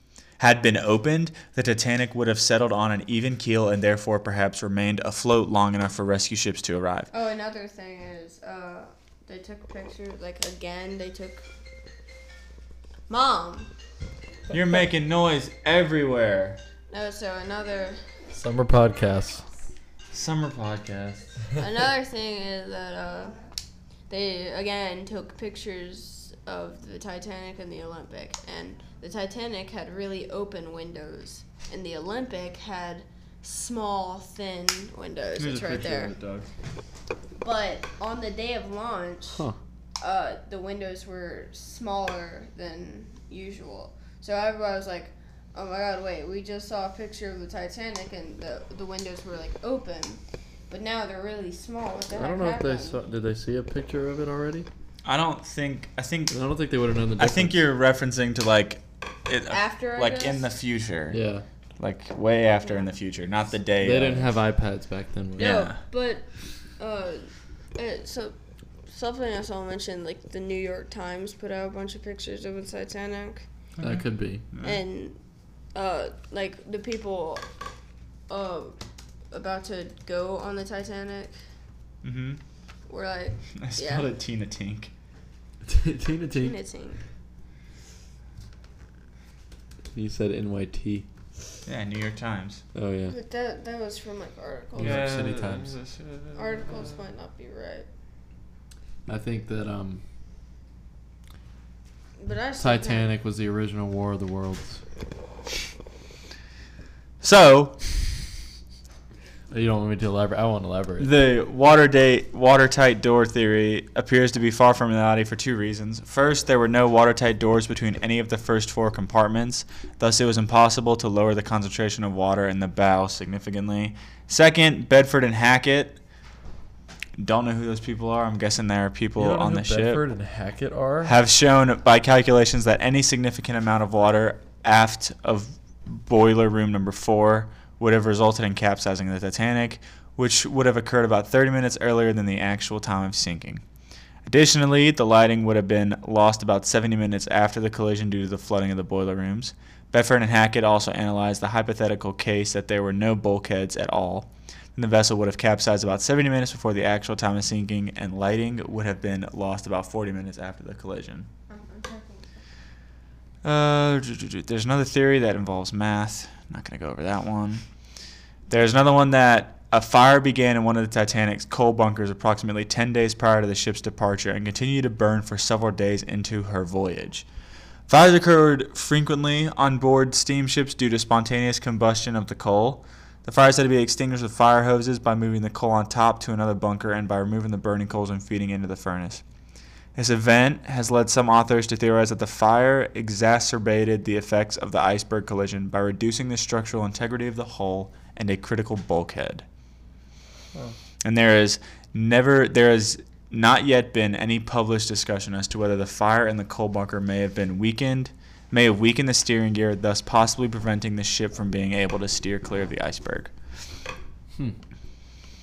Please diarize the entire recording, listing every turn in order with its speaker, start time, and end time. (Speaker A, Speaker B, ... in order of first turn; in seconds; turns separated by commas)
Speaker A: 0.4-7.1, Speaker B: 7.1-11.4, Speaker B: 13.1-13.7, Speaker A: 14.5-16.6, Speaker B: 16.9-18.2, Speaker C: 18.3-19.4, Speaker A: 20.1-21.3, Speaker B: 21.6-23.4, Speaker B: 24.1-36.1, Speaker A: 35.4-36.5, Speaker B: 37.4-39.5, Speaker B: 40.0-53.0, Speaker C: 52.1-54.7, Speaker A: 55.0-56.4, Speaker C: 56.3-57.6, Speaker A: 57.2-61.2, Speaker B: 59.5-60.4, Speaker C: 61.1-61.5, Speaker A: 61.8-64.3, Speaker C: 63.8-65.5, Speaker A: 65.4-65.8, Speaker B: 65.4-68.3, Speaker B: 68.9-73.5, Speaker A: 73.8-74.8, Speaker C: 73.8-74.5, Speaker B: 74.6-75.2, Speaker B: 75.7-77.5, Speaker B: 78.3-78.8, Speaker B: 79.3-81.3, Speaker A: 82.0-82.4, Speaker B: 82.9-84.1, Speaker A: 83.6-84.9, Speaker C: 85.6-86.6, Speaker B: 86.3-87.0, Speaker C: 89.9-91.1, Speaker A: 91.7-92.6, Speaker C: 92.7-93.2, Speaker B: 93.1-95.3, Speaker C: 94.8-95.8, Speaker A: 94.8-97.0, Speaker B: 96.3-97.9, Speaker C: 99.1-100.0, Speaker B: 102.2-103.1, Speaker C: 102.6-104.8, Speaker A: 107.2-108.2, Speaker C: 109.5-111.1, Speaker A: 111.0-126.0, Speaker A: 127.2-130.0, Speaker C: 129.2-131.1, Speaker A: 131.0-143.6, Speaker A: 144.2-161.3, Speaker B: 161.5-162.3, Speaker A: 163.4-167.6, Speaker A: 168.5-177.3, Speaker A: 177.9-189.2, Speaker A: 189.9-199.4, Speaker A: 201.0-213.3